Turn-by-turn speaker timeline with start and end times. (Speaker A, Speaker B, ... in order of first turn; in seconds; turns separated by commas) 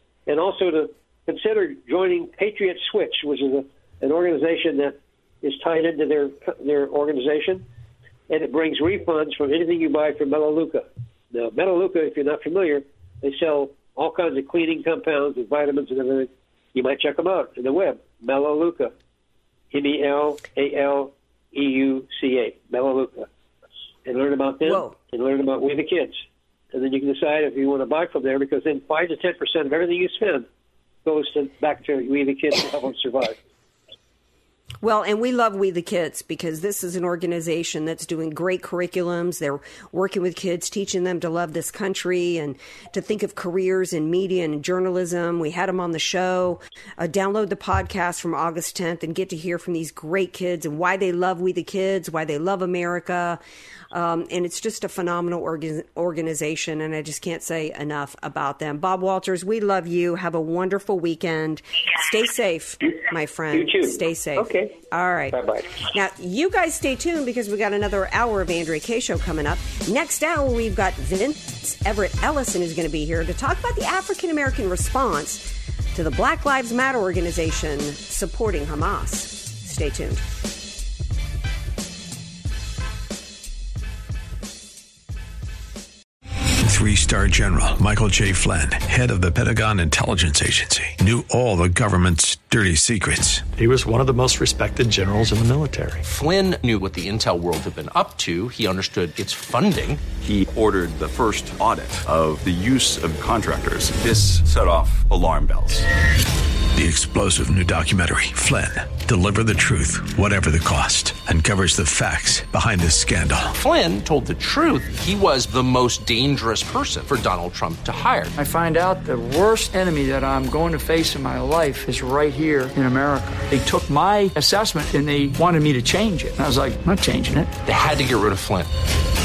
Speaker A: 0.3-7.6, Speaker A: 8.3-18.9, Speaker A: 19.7-23.3, Speaker A: 24.1-26.2, Speaker B: 24.6-24.9, Speaker A: 26.7-30.5, Speaker A: 31.1-33.4, Speaker B: 34.8-53.4, Speaker B: 53.9-80.2, Speaker A: 63.5-64.8, Speaker A: 65.3-65.8, Speaker C: 86.6-93.5, Speaker D: 93.6-96.0, Speaker E: 96.0-100.0, Speaker F: 100.2-105.9, Speaker C: 106.7-113.5, Speaker E: 113.5-118.4, Speaker G: 118.4-127.6, Speaker E: 127.6-128.7